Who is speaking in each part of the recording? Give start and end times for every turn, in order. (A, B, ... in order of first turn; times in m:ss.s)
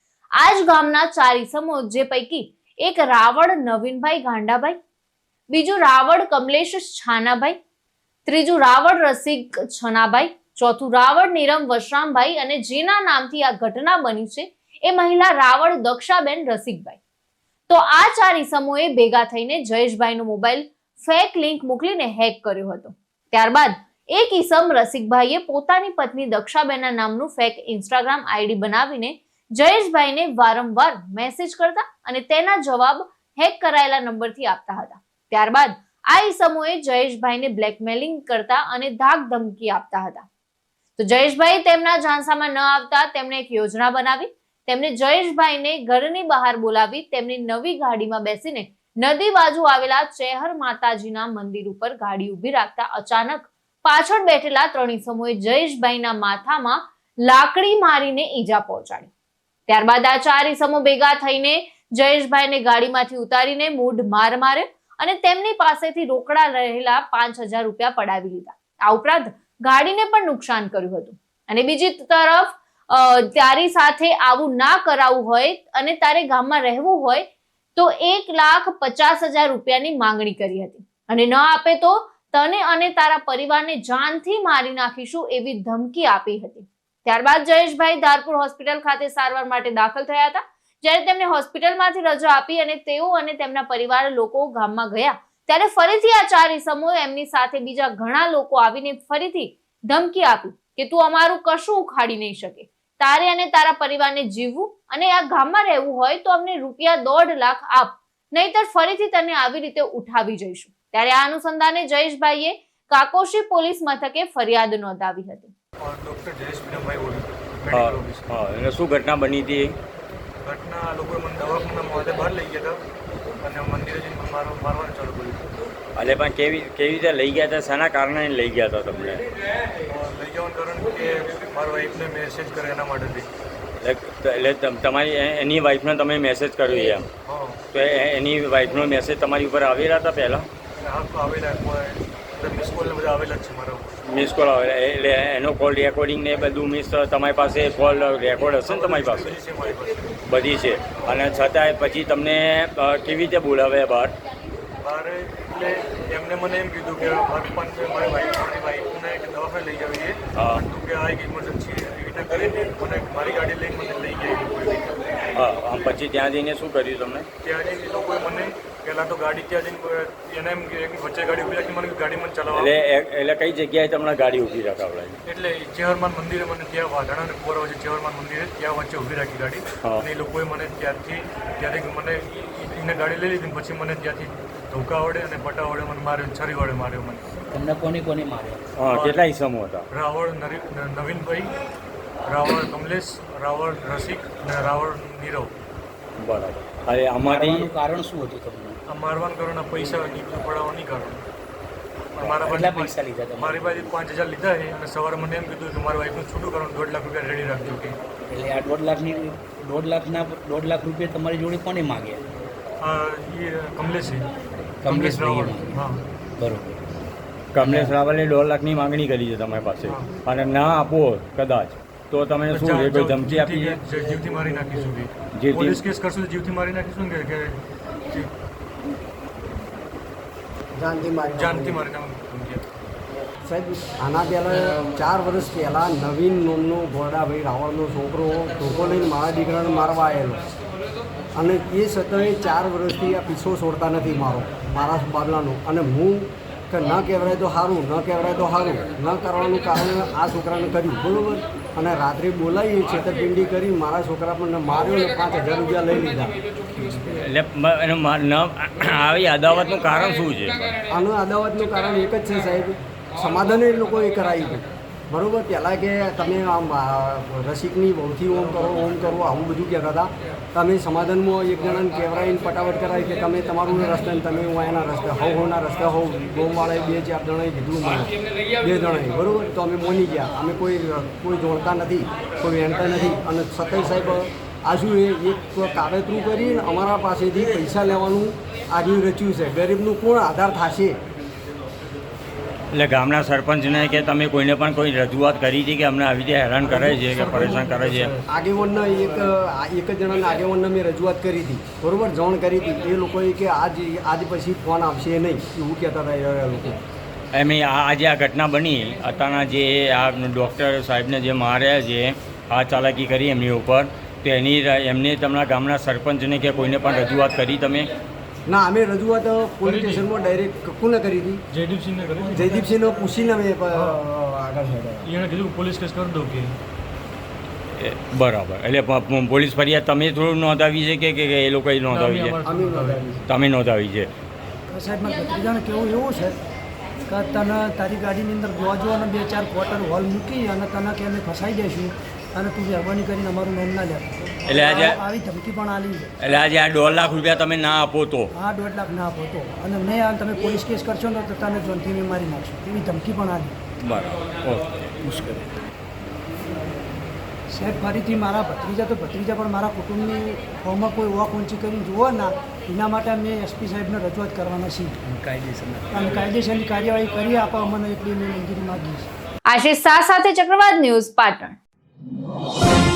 0:00.4-0:04.8 A
0:05.5-0:07.6 A
0:08.2-0:17.0 A
0:17.7-0:40.3 A
0:41.0-0:59.1 A
0:59.7-1:17.2 A
1:17.8-1:55.5 A
1:55.8-1:58.3 B
1:57.7-1:59.7 C
2:00.4-2:02.8 B
2:03.4-2:05.6 B
2:06.0-2:09.2 C
2:09.8-2:13.3 B
2:13.8-2:17.0 C
2:17.2-2:17.6 B
2:17.7-2:20.4 C
2:20.8-2:24.0 B
2:24.0-2:29.3 C
2:28.6-2:30.2 B
2:30.3-2:34.1 C
2:34.8-2:44.9 B
2:40.4-2:40.6 C
2:45.4-2:47.3 C
2:47.4-2:52.7 B
2:52.5-2:55.1 C
2:55.3-3:07.2 B
3:07.5-3:08.8 D
3:08.8-3:09.8 C
3:08.8-3:09.2 B
3:09.9-3:11.5 B
3:12.2-3:15.5 B
3:16.2-3:17.7 C
3:17.2-3:18.8 D
3:18.9-3:21.2 B
3:22.2-3:28.0 B
3:22.2-3:24.0 D
3:28.3-3:32.2 D
3:32.8-3:34.3 B
3:34.8-3:35.7 D
3:34.8-3:36.0 B
3:36.4-3:36.8 D
3:37.5-3:43.8 C
3:37.6-3:37.9 D
3:39.8-3:40.1 B
3:42.5-3:47.6 B
3:45.3-3:45.8 C
3:50.8-3:51.8 E
3:51.3-3:52.6 B
3:53.4-4:00.4 E
4:01.3-4:16.3 E
4:16.8-4:20.8 C
4:20.9-4:51.0 E
4:52.7-4:58.1 C
4:56.8-4:58.2 B
4:58.3-5:06.8 E
5:07.3-5:17.9 C
5:18.5-5:21.4 E
5:19.6-5:20.0 B
5:21.5-5:22.5 B
5:22.3-5:25.1 E
5:25.0-5:26.5 B
5:27.8-5:32.4 C
5:31.9-5:33.0 B
5:32.4-5:33.2 E
5:33.2-5:34.1 C
5:34.7-5:36.4 F
5:37.0-5:46.1 F
5:44.5-5:45.0 C
5:46.2-5:48.3 C
5:48.3-5:53.6 F
5:53.8-5:55.4 C
5:57.5-6:05.0 F
6:05.0-6:06.0 D
6:05.9-6:09.1 F
6:09.5-6:11.6 A